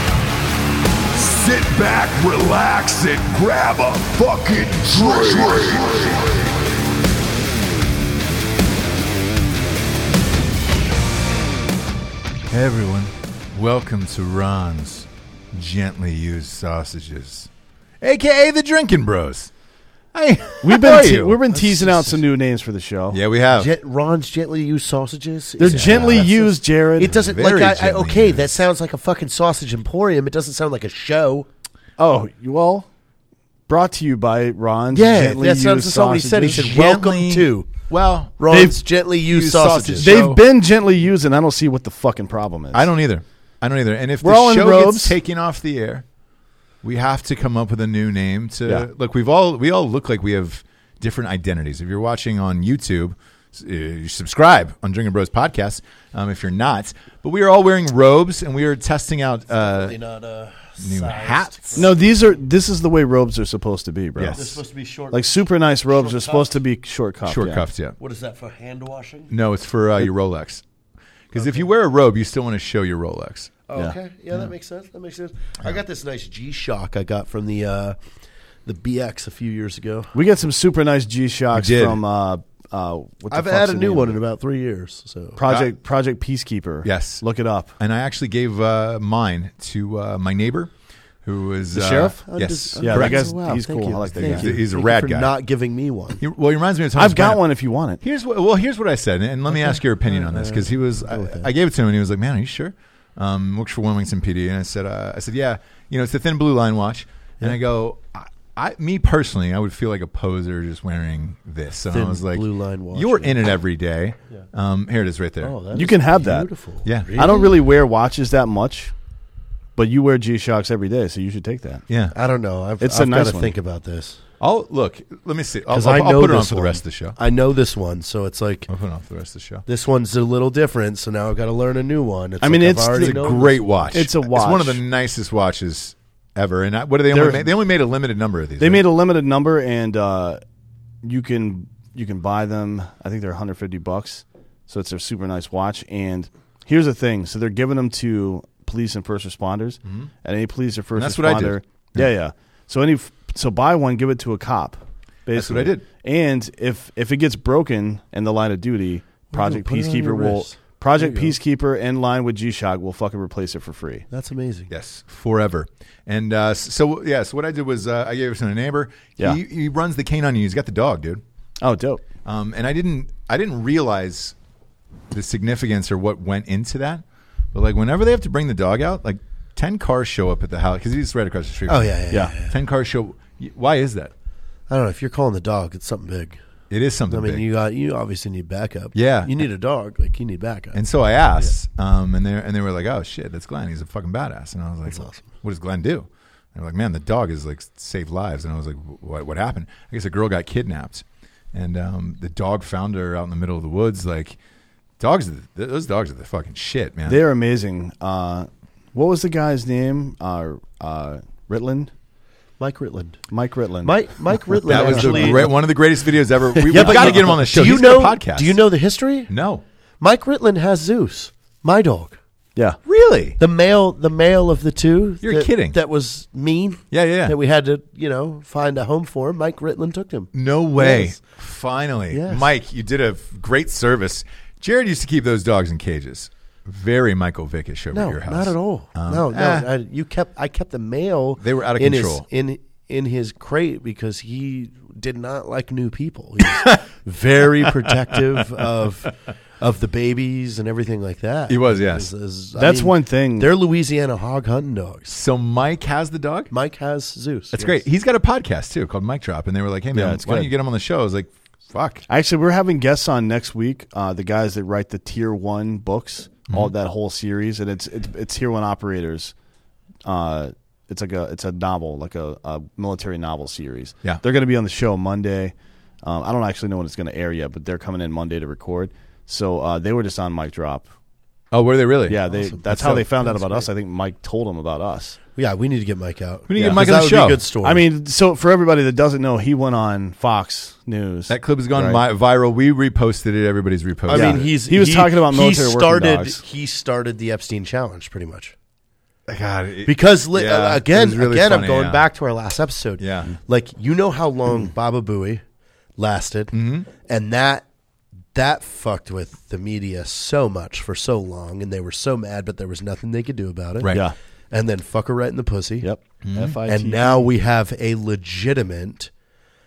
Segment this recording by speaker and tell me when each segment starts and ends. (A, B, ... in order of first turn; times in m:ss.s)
0:01.1-0:06.5 A
0:05.0-0:05.7 B
0:12.5-0:17.5 B
0:18.0-0:19.5 B
0:20.1-0:21.4 B
0:20.6-0:23.2 C
0:21.5-0:22.2 D
0:23.1-0:23.7 B
0:23.5-0:31.5 D
0:25.6-0:27.1 C
0:25.6-0:26.3 B
0:27.1-0:28.6 B
0:32.0-0:32.9 C
0:33.7-0:36.6 C
0:34.9-0:37.9 D
0:36.6-0:38.4 B
0:38.4-0:40.3 D
0:38.5-0:38.8 C
0:39.3-0:40.4 B
0:40.0-0:42.9 C
0:42.7-0:46.0 B
0:44.2-0:45.2 C
0:46.8-1:00.0 B
0:59.6-1:02.2 D
1:00.8-1:01.9 B
1:01.8-1:04.6 C
1:04.2-1:04.4 B
1:04.4-1:05.3 D
1:05.1-1:07.7 C
1:05.9-1:06.6 D
1:07.2-1:08.0 B
1:08.0-1:09.3 D
1:09.3-1:10.6 B
1:11.3-1:13.5 B
1:11.4-1:11.7 D
1:13.7-1:18.0 D
1:18.7-1:20.1 D
1:20.1-1:24.2 C
1:21.5-1:22.0 B
1:23.3-1:25.4 D
1:25.4-1:27.7 C
1:26.8-1:27.2 B
1:27.8-1:30.7 B
1:31.2-1:33.3 B
1:31.7-1:32.2 C
1:32.2-1:36.2 D
1:32.8-1:34.6 C
1:34.2-1:35.3 B
1:36.2-1:37.4 B
1:37.0-1:38.0 C
1:38.0-1:55.5 B
1:39.5-1:41.5 D
1:51.9-1:53.4 D
1:55.4-1:57.6 D
1:55.7-1:56.5 C
1:57.2-1:58.9 C
1:59.8-2:01.8 C
2:01.9-2:02.1 B
2:02.1-2:04.2 D
2:02.8-2:03.5 C
2:04.4-2:07.2 B
2:05.7-2:08.7 D
2:08.7-2:09.6 B
2:09.7-2:14.0 D
2:12.4-2:13.3 C
2:12.9-2:18.8 B
2:13.9-2:14.8 C
2:17.1-2:17.5 C
2:18.6-2:20.4 C
2:21.0-2:44.1 C
2:31.0-2:32.1 B
2:35.3-2:35.8 B
2:39.3-2:41.4 D
2:44.1-2:44.7 D
2:44.7-2:51.2 B
2:51.6-2:52.0 C
2:52.2-2:54.4 B
2:55.1-3:04.1 B
3:01.7-3:02.6 D
3:04.7-3:06.4 D
3:06.7-3:07.4 B
3:07.1-3:10.8 D
3:09.0-3:09.3 B
3:10.8-3:24.4 B
3:14.9-3:15.3 D
3:25.0-3:27.2 B
3:27.1-3:31.9 C
3:32.6-3:33.2 D
3:33.3-3:34.0 C
3:33.8-3:35.5 D
3:34.5-3:35.5 C
3:34.7-3:38.6 B
3:36.7-3:39.3 D
3:36.7-3:37.4 C
3:39.3-3:39.6 B
3:40.0-3:42.2 D
3:42.9-3:43.4 B
3:43.4-3:51.2 D
3:45.2-3:45.8 B
3:46.9-3:47.4 B
3:50.3-3:59.7 B
3:52.1-3:52.5 D
3:57.9-4:15.1 D
4:01.4-4:02.2 B
4:11.5-4:12.1 B
4:12.6-4:13.5 C
4:15.1-4:16.5 B
4:16.5-4:17.8 D
4:17.5-4:22.1 B
4:19.9-4:20.5 C
4:22.1-4:29.3 C
4:30.0-4:40.9 C
4:41.5-4:43.0 B
4:42.1-4:45.2 C
4:42.3-4:43.7 D
4:45.4-4:47.9 D
4:46.5-4:47.4 B
4:47.6-4:52.0 C
4:51.3-4:54.5 B
4:54.1-4:58.6 D
4:54.1-4:56.4 C
4:59.3-5:02.0 B
4:59.9-5:05.4 D
5:03.0-5:03.3 B
5:06.0-5:07.6 D
5:06.5-5:06.9 B
5:08.3-5:14.0 D
5:13.8-5:14.1 B
5:13.9-5:14.2 C
5:14.5-5:15.9 D
5:15.8-5:17.3 C
5:16.2-5:16.6 B
5:16.7-5:19.1 D